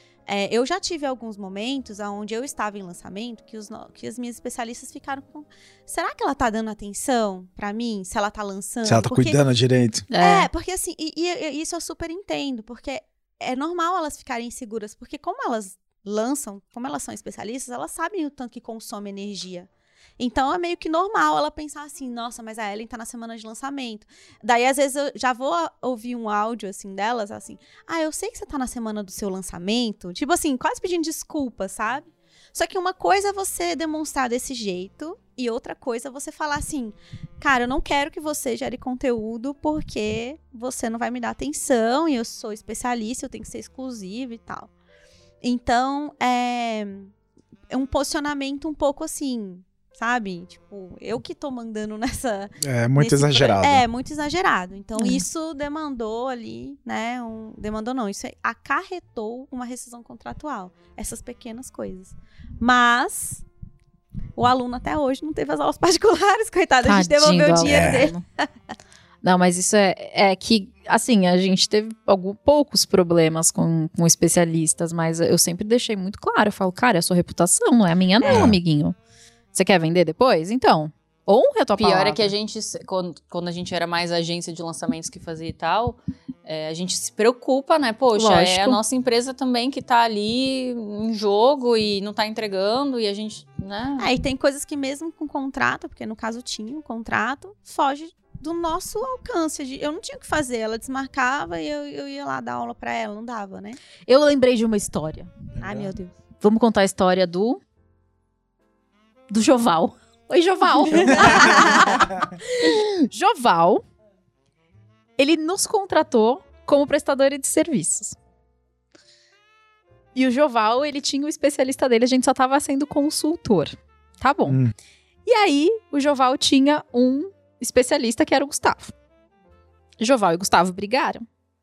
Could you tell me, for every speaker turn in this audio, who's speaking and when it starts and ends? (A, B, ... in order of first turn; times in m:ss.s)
0:00.3-0:09.4 A
0:08.8-0:10.1 B
0:10.1-0:10.5 C
0:10.1-0:44.7 A
0:45.4-0:47.1 A
0:47.7-1:03.4 A
0:52.6-0:53.8 B
0:55.0-0:55.2 C
1:04.4-1:08.5 A
1:06.8-1:08.2 C
1:07.6-1:08.0 B
1:09.2-1:19.0 C
1:18.2-1:18.5 A
1:18.2-1:18.6 B
1:19.5-1:22.3 C
1:21.8-1:34.1 D
1:28.1-1:28.8 C
1:34.0-1:43.8 A
1:44.1-1:45.3 C
1:45.5-1:45.9 B
1:45.6-1:46.1 A
1:46.4-1:47.6 C
1:49.3-1:53.8 C
1:50.9-1:52.1 A
1:51.1-1:51.6 B
1:55.2-1:58.2 C
2:00.1-2:04.6 C
2:04.5-2:04.7 B
2:05.2-2:08.9 C
2:10.0-2:11.2 C